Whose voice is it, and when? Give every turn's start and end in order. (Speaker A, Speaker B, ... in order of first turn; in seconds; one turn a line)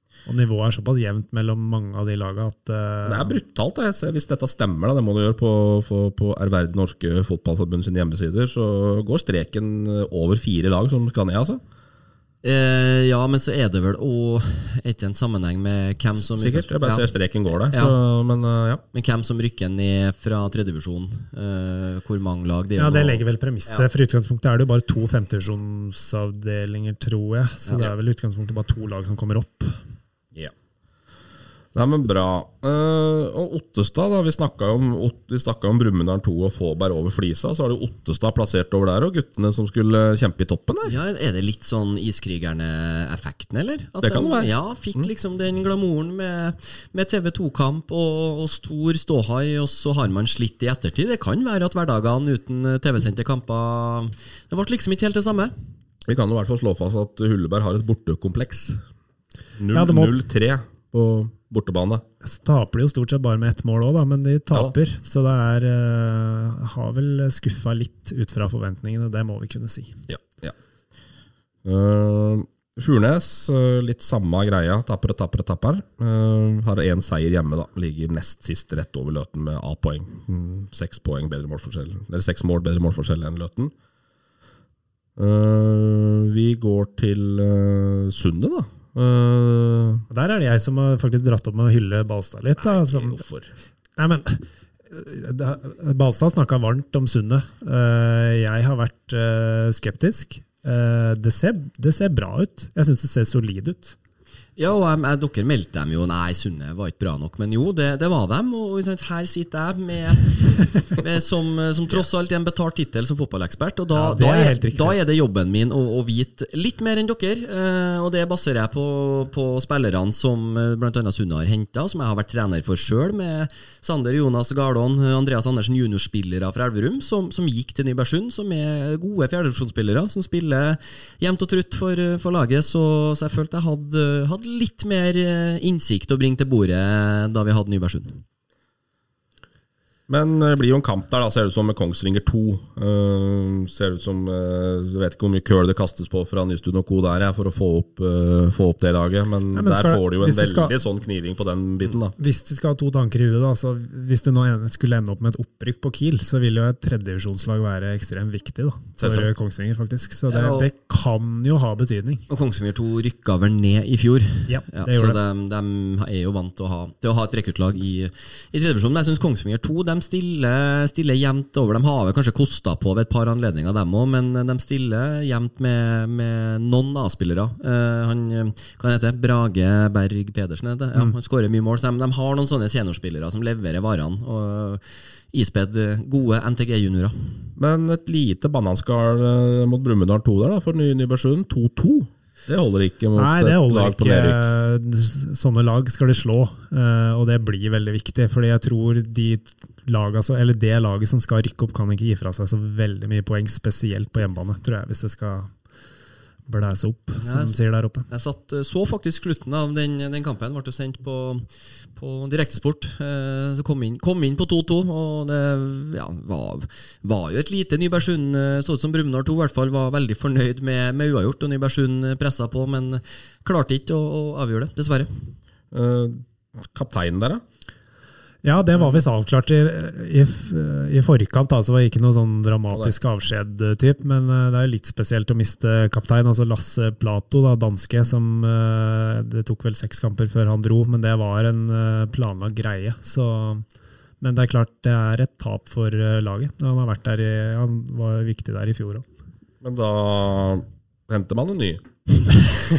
Speaker A: 0.3-3.4
Speaker B: 3.0-11.6
Speaker C: 12.4-17.1
Speaker B: 16.3-18.8
Speaker C: 17.7-18.0
Speaker C: 18.9-23.9
Speaker A: 22.8-29.8
Speaker B: 31.8-41.0
Speaker C: 40.9-55.5
Speaker B: 44.0-45.1
Speaker B: 56.1-58.8
Speaker B: 59.6-62.0
Speaker A: 59.7-60.2
Speaker A: 62.2-70.0
Speaker B: 70.1-70.5
Speaker B: 71.7-83.7
Speaker B: 85.2-90.0
Speaker A: 90.1-93.2
Speaker B: 92.6-93.5
Speaker A: 94.0-104.0
Speaker C: 104.6-138.2
Speaker A: 113.9-115.0
Speaker B: 140.1-152.2
Speaker A: 149.5-150.7
Speaker A: 152.2-162.3
Speaker B: 159.0-159.3
Speaker C: 160.3-160.7
Speaker C: 162.3-187.4
Speaker A: 164.5-165.2
Speaker B: 187.6-194.5
Speaker A: 193.2-205.5
Speaker A: 206.5-208.1
Speaker C: 207.2-207.6
Speaker C: 208.1-225.1
Speaker B: 225.7-227.4
Speaker A: 228.4-243.7
Speaker A: 244.2-249.1
Speaker B: 249.6-252.5